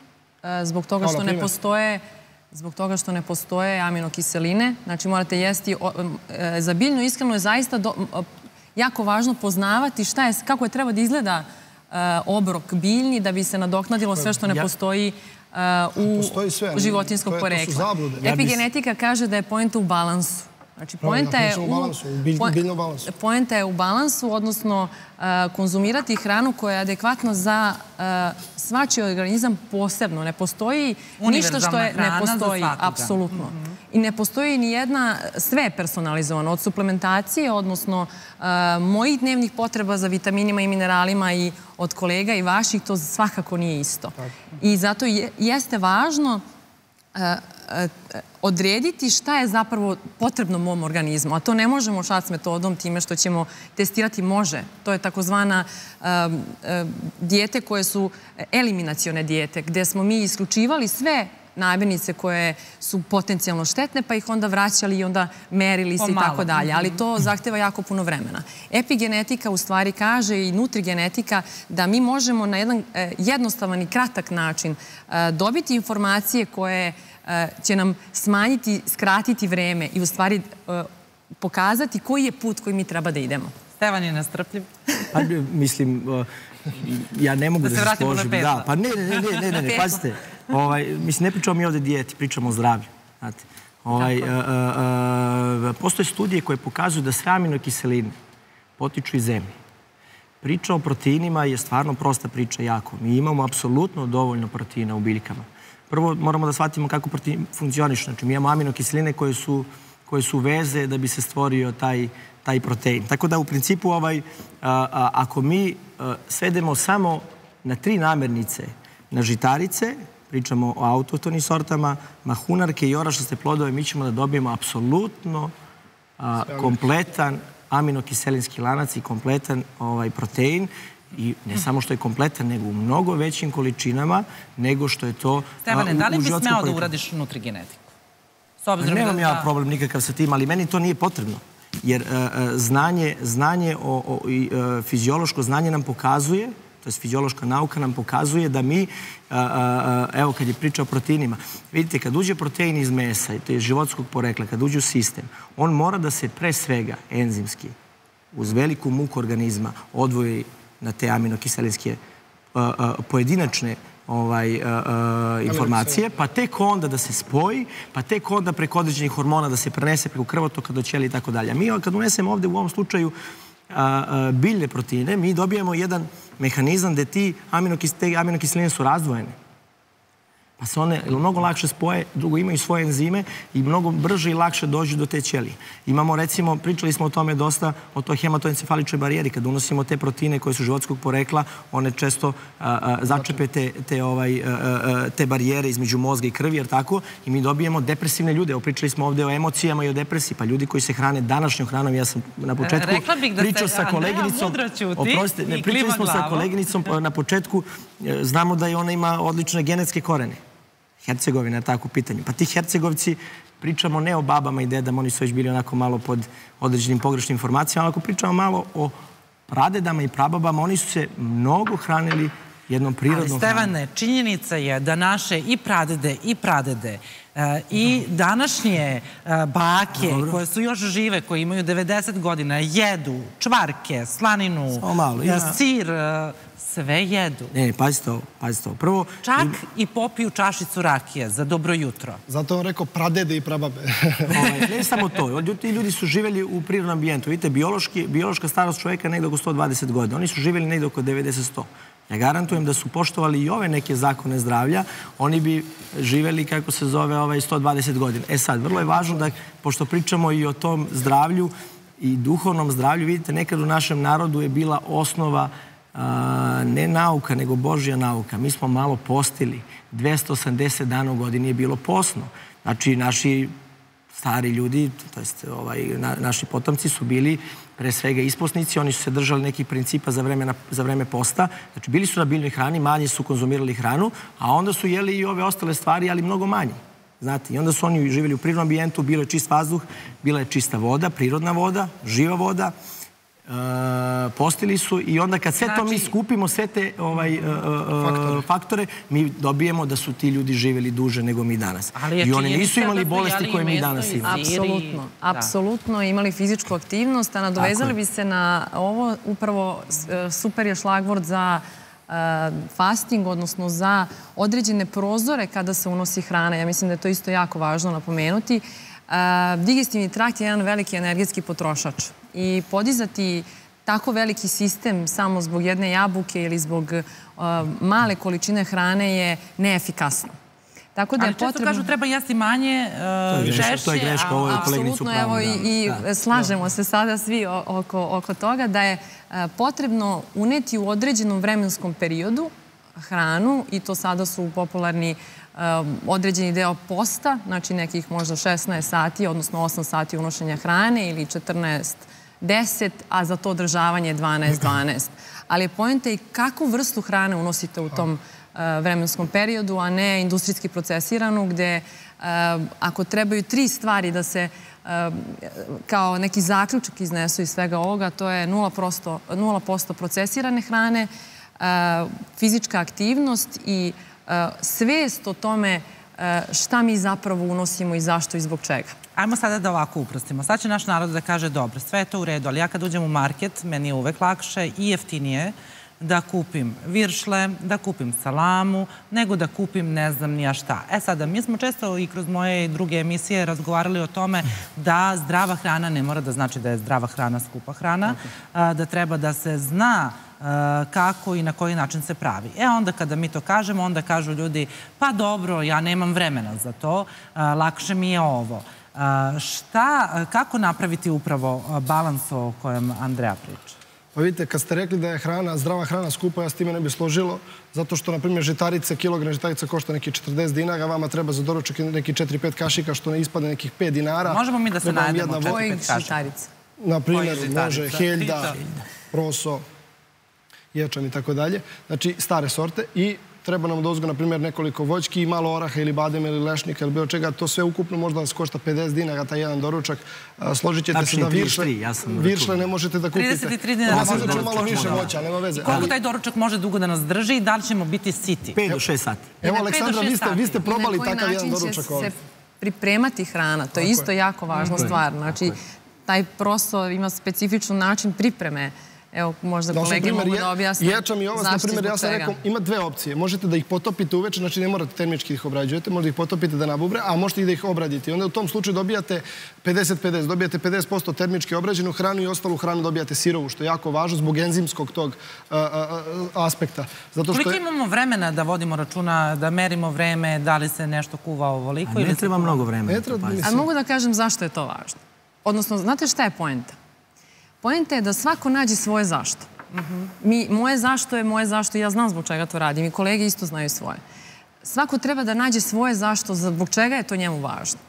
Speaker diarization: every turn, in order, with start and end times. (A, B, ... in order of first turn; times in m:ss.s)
0:00.4-0:46.4 A
0:01.0-0:01.5 B
0:16.0-0:18.3 B
0:18.2-0:18.6 C
0:21.0-0:23.1 B
0:31.2-0:33.7 D
0:47.1-1:20.9 A
1:06.0-1:07.0 D
1:21.4-1:23.5 A
1:23.8-1:24.7 D
1:25.1-1:38.1 C
1:27.6-1:28.7 D
1:29.2-1:29.8 D
1:38.8-1:39.5 C
1:40.4-2:05.5 C
2:06.2-2:16.9 C
2:15.6-2:17.9 D
2:18.6-2:19.5 D
2:18.8-2:37.7 C
2:38.3-2:42.0 C
2:42.5-2:53.1 C
2:45.5-2:46.1 B
2:53.7-2:59.3 C
3:00.6-3:30.4 C
3:22.6-3:26.5 D
3:31.0-3:38.9 C
3:39.5-3:43.7 C
3:43.1-3:57.5 D
3:49.9-3:50.4 C
3:54.7-3:55.6 C
3:57.5-3:59.6 C
3:59.2-4:02.2 D
4:02.3-4:04.6 B
4:04.3-4:33.5 C
4:34.1-4:52.7 C
4:53.5-5:04.4 C
4:55.6-4:56.1 D
4:58.0-4:58.4 B
5:01.9-5:05.5 D
5:04.2-5:30.3 A
5:07.6-5:08.0 C
5:30.9-5:31.9 A
5:31.2-5:34.8 D
5:33.3-5:36.0 C
5:34.4-6:19.0 A
6:19.2-6:53.8 D
6:54.1-7:05.6 B
7:04.2-7:06.2 D
7:05.4-7:06.5 A
7:06.8-7:08.6 B
7:07.1-7:08.6 D
7:09.1-7:09.6 B
7:10.7-7:25.9 B
7:20.9-7:22.7 C
7:23.1-7:28.6 D
7:23.9-7:25.1 C
7:28.5-7:29.3 C
7:29.4-7:32.1 B
7:29.4-7:30.6 D
7:30.6-7:42.4 A
7:33.8-7:34.1 B
7:34.5-7:35.0 D
7:34.7-7:35.5 C
7:39.7-7:57.6 B
7:57.3-8:02.6 D
8:01.8-8:03.5 C
8:02.9-8:03.7 B
8:03.4-8:06.7 A
8:07.6-8:09.5 A
8:09.7-8:10.1 D
8:10.2-8:14.0 A
8:14.6-8:17.8 A